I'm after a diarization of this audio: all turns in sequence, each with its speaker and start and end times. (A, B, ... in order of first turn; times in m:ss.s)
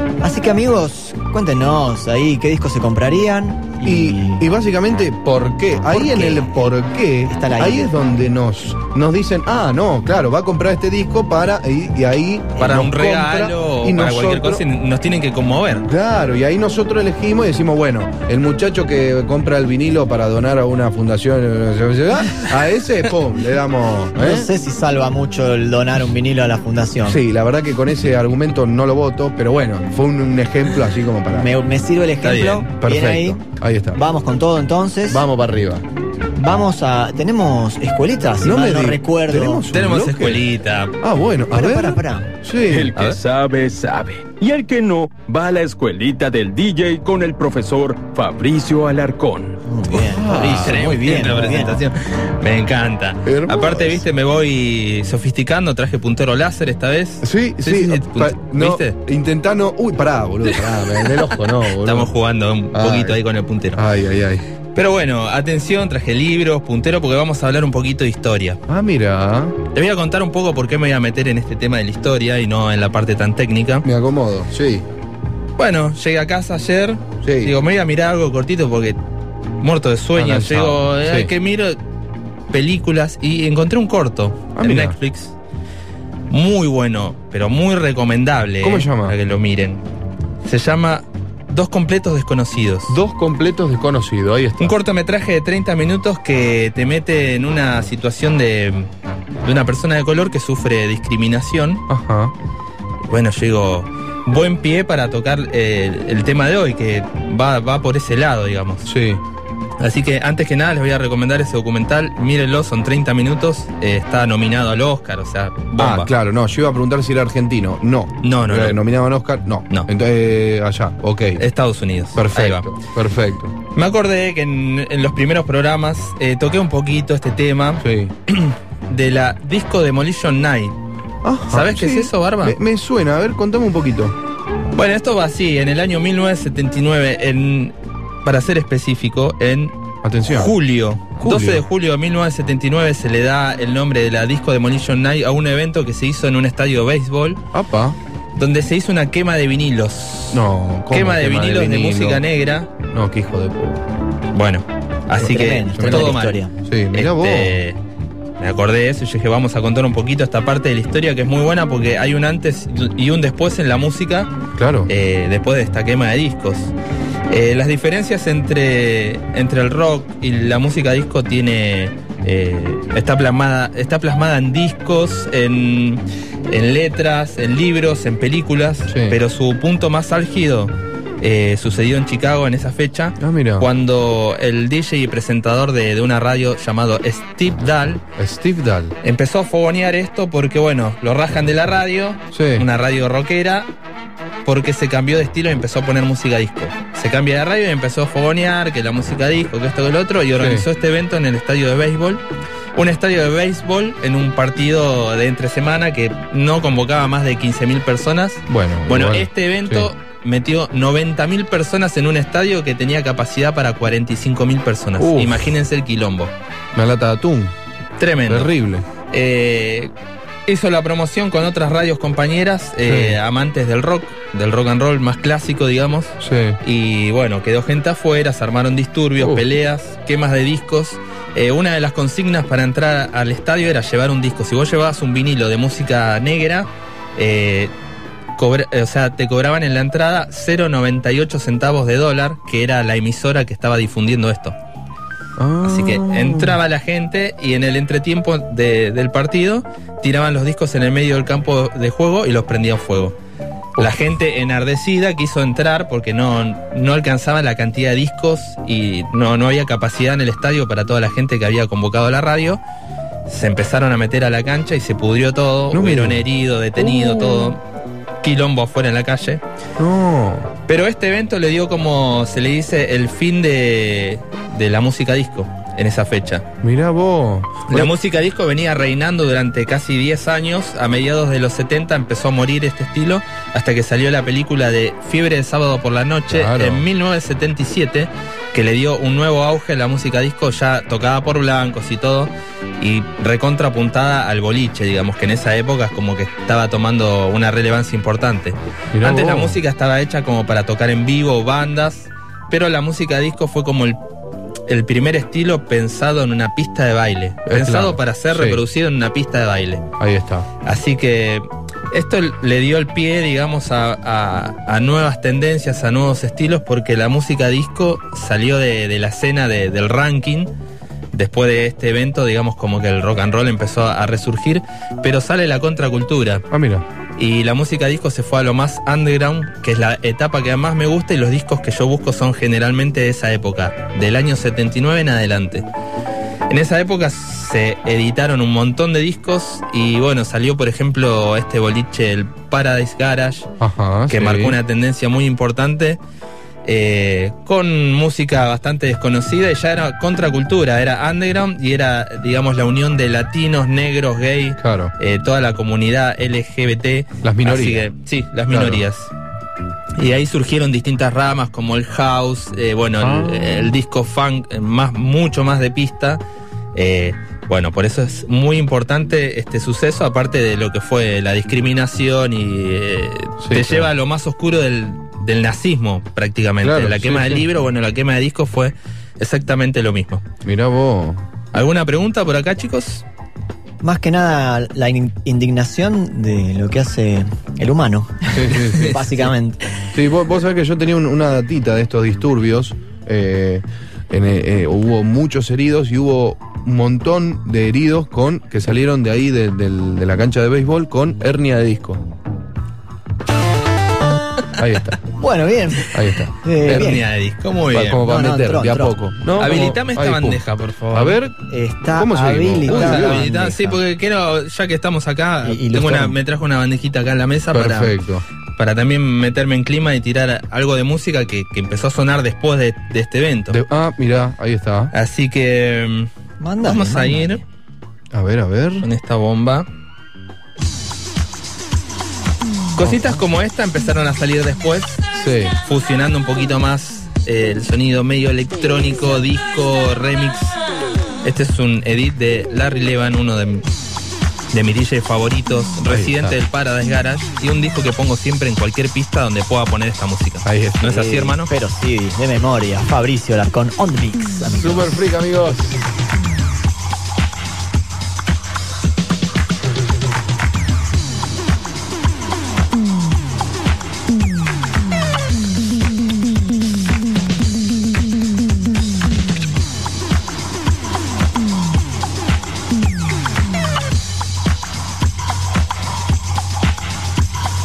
0:00.2-0:04.4 A
0:03.8-0:14.6 B
0:05.9-0:08.0 A
0:12.6-0:15.8 C
0:15.9-0:24.5 B
0:24.2-0:27.2 A
0:27.0-0:31.5 B
0:31.3-0:33.4 A
0:32.2-0:32.7 C
0:32.8-0:34.0 B
0:33.9-0:35.2 A
0:35.1-0:35.8 B
0:36.4-0:39.6 A
0:38.4-0:40.4 B
0:39.7-0:40.9 C
0:41.0-0:43.0 B
0:41.5-0:42.3 A
0:42.7-0:49.6 D
0:49.7-0:51.8 A
0:50.0-0:50.9 B
0:50.3-0:58.9 C
0:53.2-0:54.0 B
0:57.2-1:02.1 B
1:00.5-1:01.2 C
1:01.8-1:03.8 C
1:02.7-1:03.2 B
1:03.7-1:04.4 B
1:04.7-1:08.6 C
1:08.7-1:09.5 B
1:09.7-1:13.8 C
1:13.8-1:14.8 B
1:15.6-1:19.0 C
1:17.2-1:17.5 B
1:19.6-1:21.8 C
1:20.2-1:21.3 B
1:22.5-1:25.3 C
1:24.6-1:25.0 B
1:26.3-1:29.8 C
1:28.6-1:29.1 B
1:30.4-1:32.9 C
1:32.9-1:34.7 B
1:34.6-1:38.9 C
1:39.4-1:41.8 C
1:41.9-1:42.3 B
1:43.1-1:48.9 C
1:48.8-1:49.2 B
1:49.8-1:56.1 C
1:55.8-2:01.4 B
1:58.2-1:58.8 C
2:01.4-2:02.7 C
2:02.1-2:03.5 B
2:03.7-2:10.7 C
2:07.8-2:08.1 B
2:11.2-2:14.1 B
2:11.5-2:12.6 C
2:14.7-2:17.7 C
2:18.2-2:19.7 C
2:20.0-2:20.5 B
2:20.3-2:27.4 C
2:21.2-2:21.6 B
2:27.5-2:28.0 B
2:28.4-2:32.7 C
2:30.3-2:32.2 B
2:32.9-2:33.8 B
2:34.3-2:36.4 C
2:35.2-2:36.5 A
2:35.2-2:37.5 B
2:36.9-2:37.8 C
2:38.4-2:44.3 C
2:44.6-2:44.9 B
2:44.9-2:46.7 C
2:47.3-3:08.0 C
2:58.9-2:59.2 B
3:03.2-3:03.7 B
3:08.2-3:08.9 B
3:09.0-3:13.7 C
3:12.3-3:12.6 B
3:14.4-3:22.2 C
3:20.4-3:20.6 B
3:22.8-3:36.3 C
3:28.5-3:29.9 B
3:35.0-3:35.4 B
3:36.7-3:37.5 B
3:38.0-3:38.5 C
3:38.3-3:38.8 B
3:39.1-3:39.9 C
3:40.5-3:57.7 C
3:42.8-3:43.2 B
3:46.2-3:46.6 B
3:49.2-3:49.4 B
3:58.4-4:04.5 C
4:05.4-4:06.6 B
4:05.6-4:13.1 C
4:13.8-4:22.6 C
4:23.3-4:27.6 C
4:25.7-4:26.2 B
4:27.0-4:27.4 B
4:28.2-4:29.4 C
4:29.8-4:30.5 B
4:30.7-4:36.4 C
4:36.6-4:37.9 B
4:37.7-5:04.0 C
4:46.3-4:46.8 B
4:58.9-4:59.6 B
5:04.7-5:09.8 C
5:07.5-5:08.6 B
5:10.0-5:10.4 B
5:10.6-5:20.5 C
5:21.1-5:26.4 C
5:26.5-5:26.8 B
5:27.2-5:35.6 C
5:36.5-5:43.5 C
5:43.6-5:44.6 B
5:44.1-5:46.0 C
5:46.6-5:59.1 C
5:54.6-5:54.9 B
5:57.2-5:57.8 B
5:58.5-5:58.8 B
6:00.0-6:06.2 C
6:03.0-6:03.7 B
6:06.7-6:20.2 C
6:13.4-6:13.9 B
6:16.6-6:17.5 B
6:20.4-6:21.2 B
6:21.5-6:23.0 C
6:23.8-6:29.8 A
6:28.3-6:29.2 B
6:29.9-6:42.0 B
6:44.6-6:45.0 B
6:45.2-6:45.9 A
6:45.9-6:46.9 B
6:46.4-6:47.0 A
6:46.6-6:48.0 C
6:47.7-6:51.3 B
6:48.0-6:48.9 A
6:49.4-6:51.2 C
6:51.5-6:53.8 A
6:52.0-6:53.2 B
6:52.7-6:57.9 C
6:55.4-6:56.1 A
6:57.5-6:58.2 B
6:58.6-7:03.6 C
7:03.5-7:04.9 B
7:04.9-7:06.1 C
7:06.4-7:07.4 A
7:06.6-7:07.4 C
7:08.1-7:08.9 B
7:08.8-7:09.6 C
7:12.8-7:15.0 C
7:12.8-7:13.2 B
7:15.1-7:15.5 B
7:15.6-7:20.6 C
7:21.2-7:23.6 C
7:24.5-7:31.5 C
7:25.9-7:26.4 B
7:30.4-7:30.9 B
7:30.8-7:34.9 A
7:34.5-7:35.8 B